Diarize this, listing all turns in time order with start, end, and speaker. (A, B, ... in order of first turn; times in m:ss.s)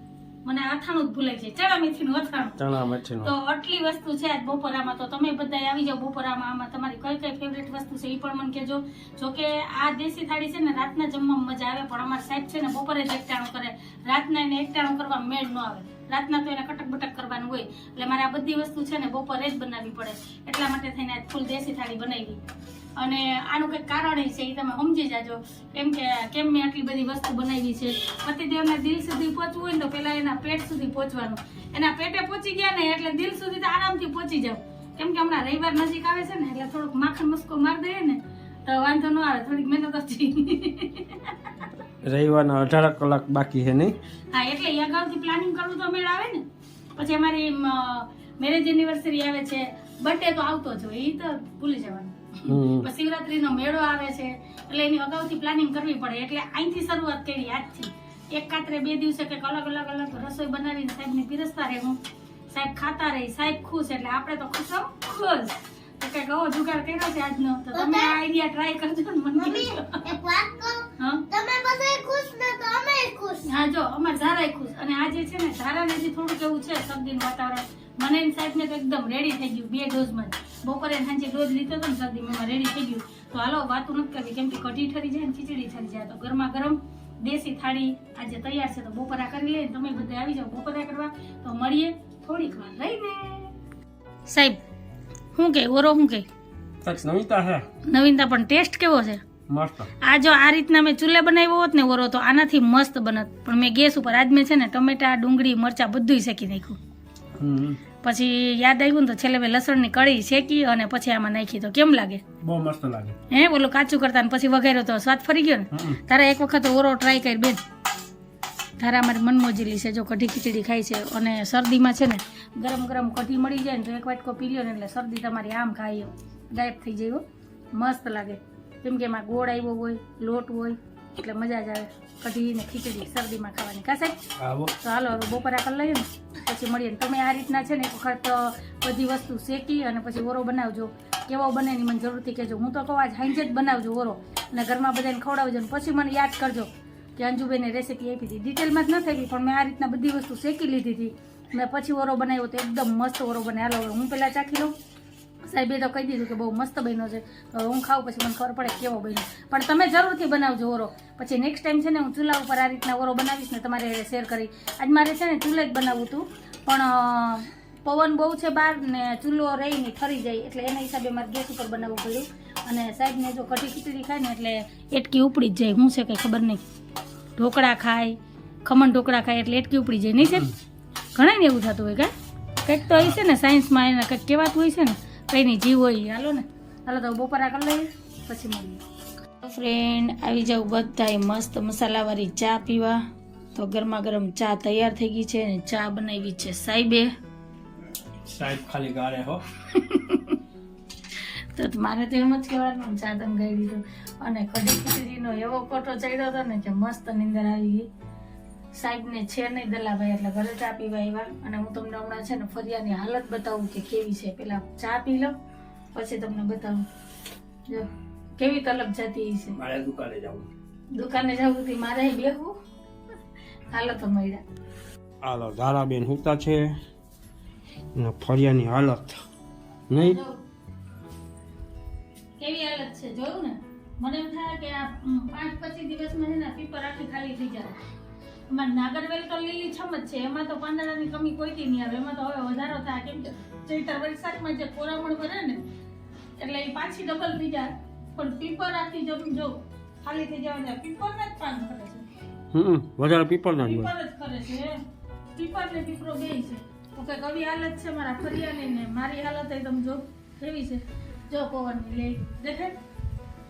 0:00.4-0:02.6 A
0:02.6-0:03.3 B
0:03.2-0:22.4 A
0:23.0-0:41.5 A
0:42.0-0:44.0 B
0:44.3-0:46.4 A
0:47.0-1:02.0 A
0:52.5-0:52.9 B
1:02.5-1:10.2 A
1:07.7-1:08.1 C
1:09.4-1:13.4 C
1:11.0-1:11.3 A
1:13.4-1:33.5 A
1:34.3-1:34.6 A
1:35.3-1:36.2 A
1:36.8-1:37.6 B
1:37.8-1:39.2 A
1:39.5-1:39.9 B
1:40.0-1:46.8 A
1:47.4-1:47.8 B
1:48.0-1:52.2 A
1:52.4-1:53.2 B
1:53.3-1:57.6 A
1:55.7-1:56.0 B
1:58.8-2:14.2 A
2:14.4-2:14.7 B
2:14.8-2:34.7 A
2:35.4-2:56.6 A
2:57.4-3:00.5 A
3:01.1-3:02.1 A
3:02.6-3:08.8 A
3:09.4-3:17.1 A
3:18.2-3:19.4 B
3:19.7-3:20.4 A
3:21.5-3:27.9 A
3:28.7-3:35.3 A
3:35.9-3:36.8 A
3:38.4-3:39.6 A
3:39.6-3:40.5 B
3:41.0-3:42.6 A
3:43.7-3:44.4 A
3:45.2-3:46.7 B
3:47.9-3:49.2 B
3:49.9-3:50.2 B
3:50.0-3:50.4 A
3:52.4-3:57.8 A
3:58.5-4:05.6 A
4:06.4-4:12.1 A
4:12.5-4:13.9 B
4:13.6-4:14.8 A
4:15.3-4:22.8 A